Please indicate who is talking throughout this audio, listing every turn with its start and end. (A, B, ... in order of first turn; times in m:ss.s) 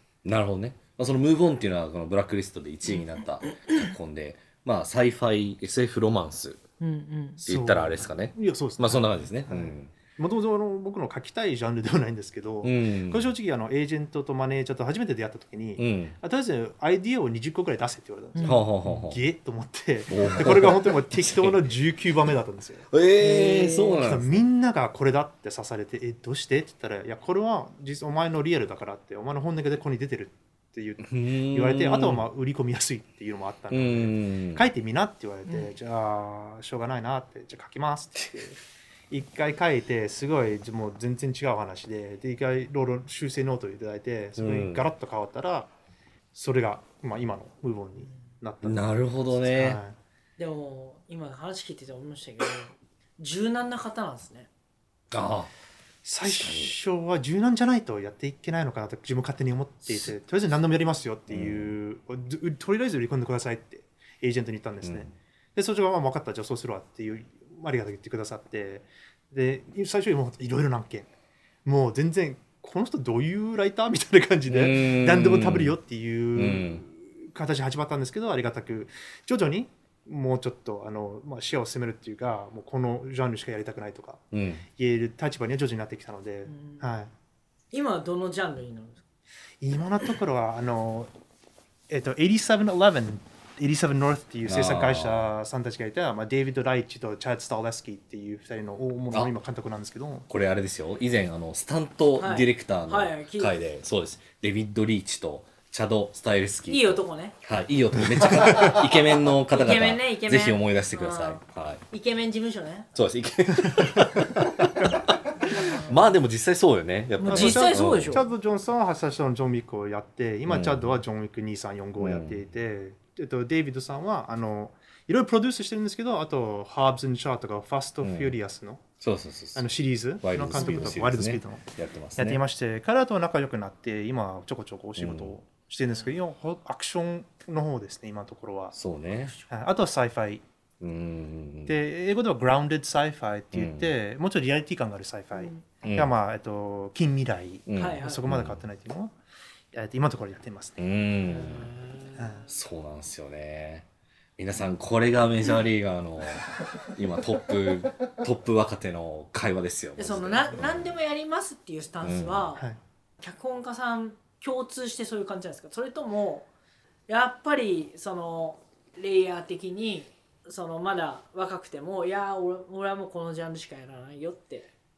0:00.2-0:06.6 A
0:06.8-0:07.4 B
0:07.4-0:09.9 A
0:07.4-0:22.9 C
0:12.6-0:13.3 A
0:15.8-0:16.2 A
0:18.3-0:18.6 B
0:18.4-0:19.2 A
0:20.1-0:21.6 A
0:22.9-0:24.4 A
0:23.2-0:24.0 B
0:23.9-0:38.6 C
0:31.0-0:32.2 A
0:33.7-0:34.6 A
0:39.1-0:45.7 C
0:44.4-0:44.8 A
0:46.3-0:50.0 C
0:48.6-0:49.8 A
0:50.4-0:54.5 B
0:55.1-0:55.5 A
0:56.0-1:11.1 C
0:56.2-0:56.8 A
1:01.3-1:01.7 A
1:04.8-1:05.1 A
1:11.6-1:27.1 C
1:14.5-1:15.8 A
1:16.3-1:16.8 A
1:24.3-1:24.6 A
1:26.5-1:26.9 B
1:27.7-1:29.0 B
1:29.6-1:31.1 C
1:31.9-1:40.3 C
1:34.4-1:35.3 A
1:40.3-1:51.8 A
1:42.2-1:43.5 B
1:46.7-1:47.4 B
1:48.1-1:48.8 C
1:49.5-1:52.9 B
1:52.9-1:58.2 A
1:55.5-1:56.0 B
1:57.2-1:58.2 B
1:57.2-2:08.8 C
2:00.5-2:01.0 A
2:02.0-2:02.4 A
2:08.0-2:08.4 A
2:09.0-2:12.4 A
2:09.5-2:11.6 C
2:10.6-2:10.9 B
2:12.2-2:18.7 C
2:15.0-2:15.3 A
2:18.7-2:19.4 A
2:19.5-2:20.4 C
2:20.8-2:21.8 A
2:21.6-2:29.1 C
2:23.5-2:23.9 A
2:25.4-2:25.6 B
2:25.8-2:26.1 A
2:27.7-2:28.6 A
2:27.8-2:28.2 B
2:29.7-2:30.8 C
2:30.8-2:31.7 A
2:31.3-2:32.4 B
2:32.2-2:32.4 C
2:32.5-2:33.8 A
2:34.4-2:40.9 A
2:40.0-2:42.7 B
2:42.0-2:42.5 A
2:43.2-2:46.5 B
2:47.1-2:54.7 B